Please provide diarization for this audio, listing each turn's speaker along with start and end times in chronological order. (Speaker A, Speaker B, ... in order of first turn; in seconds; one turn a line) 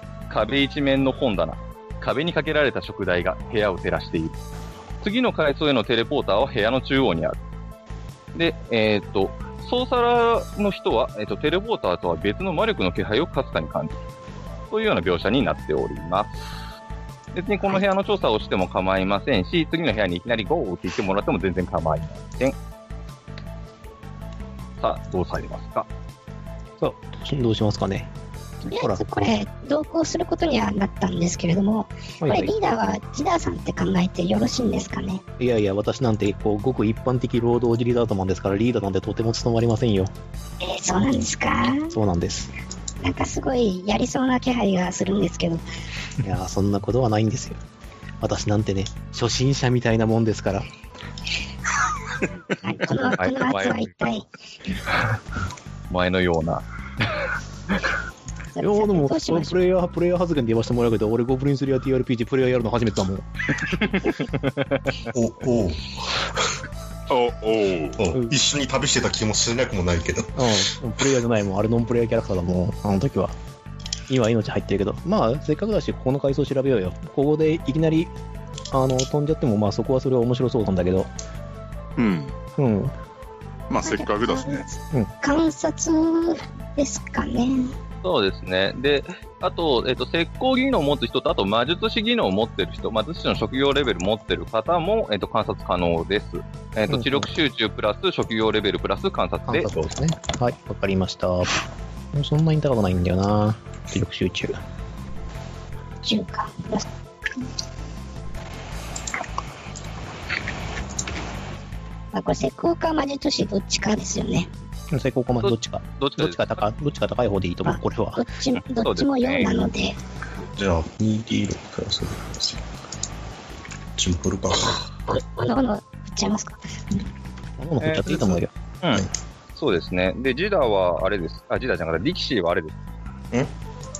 Speaker A: 0.3-4.3
Speaker A: 5.0-7.4
Speaker A: 8.3-14.0
Speaker A: 14.7-16.5
Speaker A: 17.3-22.5
Speaker A: 24.8-25.9
Speaker B: 26.8-28.1
Speaker B: 28.6-29.0
Speaker C: 28.6-35.2
Speaker B: 32.2-32.5
Speaker B: 35.4-40.1
Speaker C: 40.6-42.0
Speaker B: 41.9-42.5
Speaker C: 43.0-45.6
Speaker B: 46.2-47.6
Speaker B: 48.2-50.7
Speaker C: 52.5-54.3
Speaker A: 53.2-54.0
Speaker A: 55.9-56.6
Speaker C: 58.5-59.6
Speaker B: 58.6-63.2
Speaker A: 64.0-64.3
Speaker D: 65.1-66.3
Speaker E: 67.1-68.0
Speaker D: 68.0-70.5
Speaker B: 70.3-73.3
Speaker B: 74.1-78.1
Speaker B: 78.7-81.1
Speaker E: 82.0-82.3
Speaker B: 82.6-82.9
Speaker E: 83.7-84.7
Speaker C: 83.8-87.7
Speaker A: 88.0-99.8
Speaker B: 96.9-97.3
Speaker B: 99.5-101.5
Speaker B: 102.1-104.6
Speaker C: 106.0-106.8
Speaker C: 112.1-114.5
Speaker B: 114.9-118.2
Speaker A: 115.4-116.6
Speaker C: 117.6-120.0
Speaker A: 118.5-119.6
Speaker D: 120.5-122.6
Speaker D: 124.0-124.9
Speaker C: 125.1-126.6
Speaker B: 127.6-128.5
Speaker A: 127.8-132.8